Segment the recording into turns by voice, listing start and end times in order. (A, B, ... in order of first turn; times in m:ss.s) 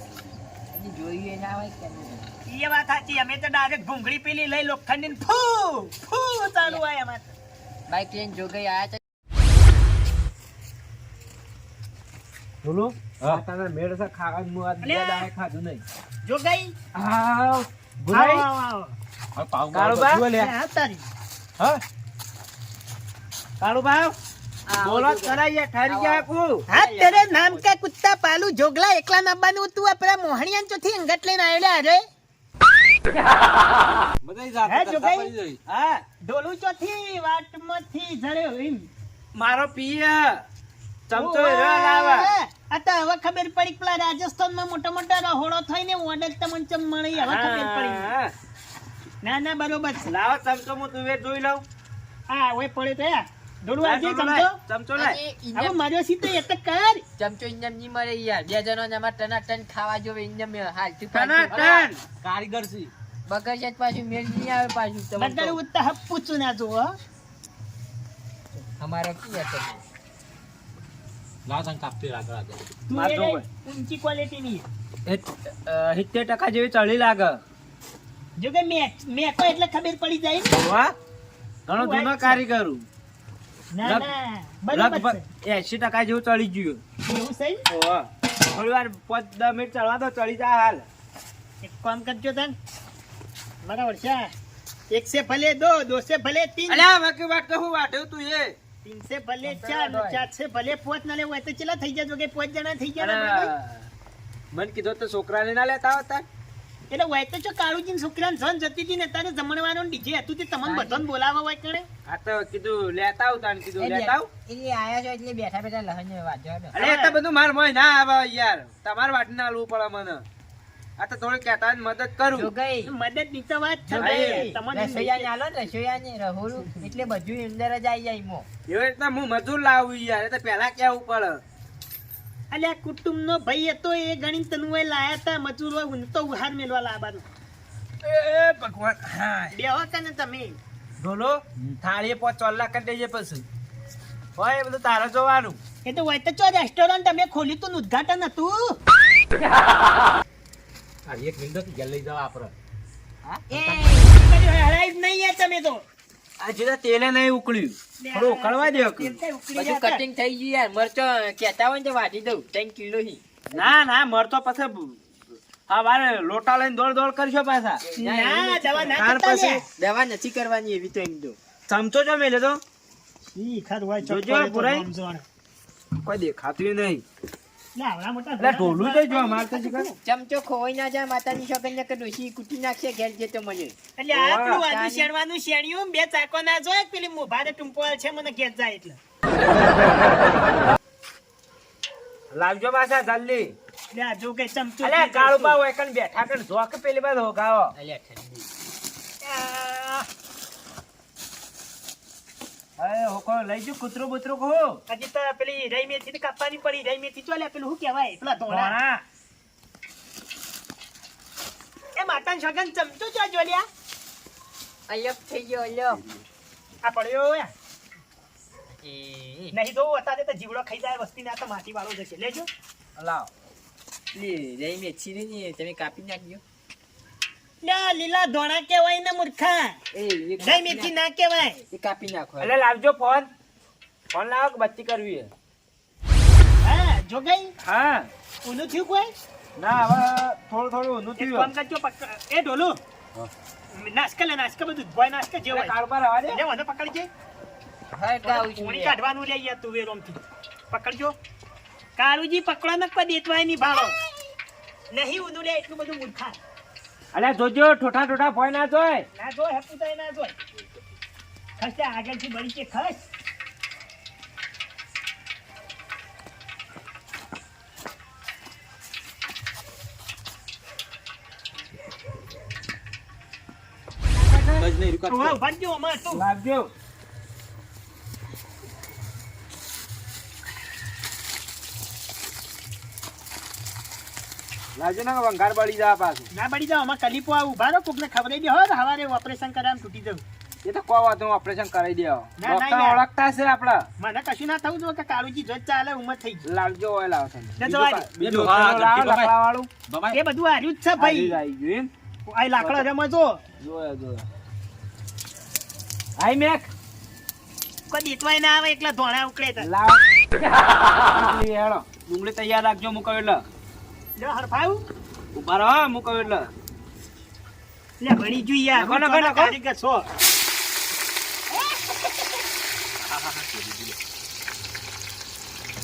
0:00.7-0:02.3 A
0:02.5-0:07.3 B
0:07.9-0:09.0 A
0:12.6-0:15.8 C
0:14.8-0:15.2 B
0:16.2-0:16.7 B
0:16.9-0:18.4 C
0:18.1-0:18.9 B
0:19.3-0:20.4 D
0:19.7-0:20.5 C
0:20.3-0:21.0 B
0:23.6-0:24.1 C
0:24.6-0:27.6 A
0:24.8-0:26.6 C
0:26.7-0:32.0 B
0:34.2-0:35.6 D
0:34.6-0:35.3 B
0:35.6-0:36.0 C
0:36.2-0:38.9 B
0:39.3-0:40.4 C
0:41.1-0:42.3 C
0:41.1-0:48.1 B
0:47.1-0:48.3 C
0:49.2-0:50.1 B
0:50.0-0:51.6 C
0:52.3-0:54.5 B
0:53.8-0:55.2 C
0:55.0-0:55.8 A
0:55.5-0:57.0 B
0:57.2-1:01.6 A
1:01.1-1:01.9 B
1:01.5-1:01.9 C
1:01.6-1:02.9 D
1:03.3-1:05.6 A
1:05.2-1:06.9 B
1:08.8-1:09.8 A
1:11.4-1:12.7 D
1:12.9-1:14.7 B
1:12.9-1:13.4 C
1:15.0-1:17.4 C
1:18.4-1:20.5 B
1:20.5-1:20.9 C
1:21.7-1:22.8 C
1:21.7-1:22.4 B
1:23.7-1:25.2 B
1:24.7-1:26.8 C
1:27.0-1:27.6 B
1:27.7-1:30.9 C
1:31.6-1:32.6 B
1:33.6-1:34.3 B
1:34.9-1:36.8 B
1:36.7-1:38.6 C
1:38.8-1:43.5 B
1:39.4-1:40.2 C
1:43.0-1:43.9 C
1:44.5-1:46.2 C
1:46.9-1:51.9 B
1:50.6-1:51.0 A
1:52.1-1:54.3 C
1:53.8-1:56.8 A
1:56.7-2:00.2 C
1:56.8-1:57.2 B
2:01.0-2:02.5 C
2:02.3-2:02.9 A
2:02.8-2:05.3 B
2:04.0-2:04.5 C
2:04.0-2:08.5 A
2:08.7-2:11.4 C
2:12.5-2:17.3 B
2:18.0-2:19.5 C
2:19.5-2:20.6 B
2:21.0-2:23.4 C
2:24.4-2:25.6 C
2:25.8-2:28.8 B
2:31.0-2:32.5 D
2:33.5-2:35.8 B
2:36.4-2:39.2 C
2:38.0-2:40.0 B
2:39.5-2:43.2 A
2:43.5-2:45.0 C
2:45.7-2:47.8 C
2:47.8-2:49.0 A
2:48.0-2:49.6 B
2:49.0-2:49.6 C
2:49.8-2:51.4 A
2:51.7-2:52.6 C
2:53.3-2:55.2 B
2:54.0-2:54.9 C
2:56.0-2:57.0 C
2:57.8-3:00.0 B
2:58.4-2:59.9 C
3:00.0-3:03.7 A
3:04.0-3:09.0 B
3:04.1-3:04.6 C
3:04.6-3:05.1 A
3:12.3-3:13.5 C
3:13.9-3:15.6 B
3:14.8-3:17.7 C
3:17.7-3:18.5 A
3:19.2-3:20.1 B
3:22.8-3:24.8 C
3:24.9-3:28.8 B
3:28.5-3:29.0 C
3:32.0-3:33.6 B
3:34.9-3:36.0 A
3:36.8-3:37.5 B
3:38.8-3:39.6 A
3:39.5-3:42.5 B
3:43.0-3:43.3 C
3:44.1-3:46.4 A
3:47.6-3:49.8 B
3:49.9-3:50.9 A
3:50.4-3:51.6 B
3:51.7-3:52.5 A
3:52.4-3:53.3 C
3:54.1-3:55.3 C
3:56.6-3:57.5 B
3:57.6-3:58.1 C
3:58.4-3:59.1 B
3:59.6-4:01.5 C
4:01.2-4:02.8 B
4:03.7-4:05.7 B
4:05.5-4:06.4 C
4:06.3-4:07.1 B
4:07.9-4:09.0 A
4:08.2-4:11.1 B
4:12.0-4:14.0 B
4:14.9-4:16.4 B
4:17.1-4:19.0 C
4:19.2-4:20.4 B
4:21.6-4:23.0 B
4:34.2-4:36.2 B
4:34.6-4:35.4 D
4:36.1-4:36.7 C
4:44.8-4:46.3 C
4:46.3-4:50.2 B
4:50.6-4:53.9 C
4:52.4-4:53.0 B
4:54.0-4:56.4 B
4:56.4-4:59.7 C
4:57.6-4:58.1 B
4:58.2-5:00.2 D
5:00.1-5:01.4 B
5:01.0-5:01.9 C
5:02.3-5:03.4 B
5:02.6-5:02.8 C
5:03.6-5:04.2 C
5:06.2-5:06.7 C
5:07.9-5:09.7 B
5:09.6-5:10.0 C
5:11.0-5:13.4 C
5:14.2-5:14.8 B
5:15.3-5:16.5 C
5:18.0-5:20.1 B
5:18.8-5:19.5 C
5:23.0-5:24.0 D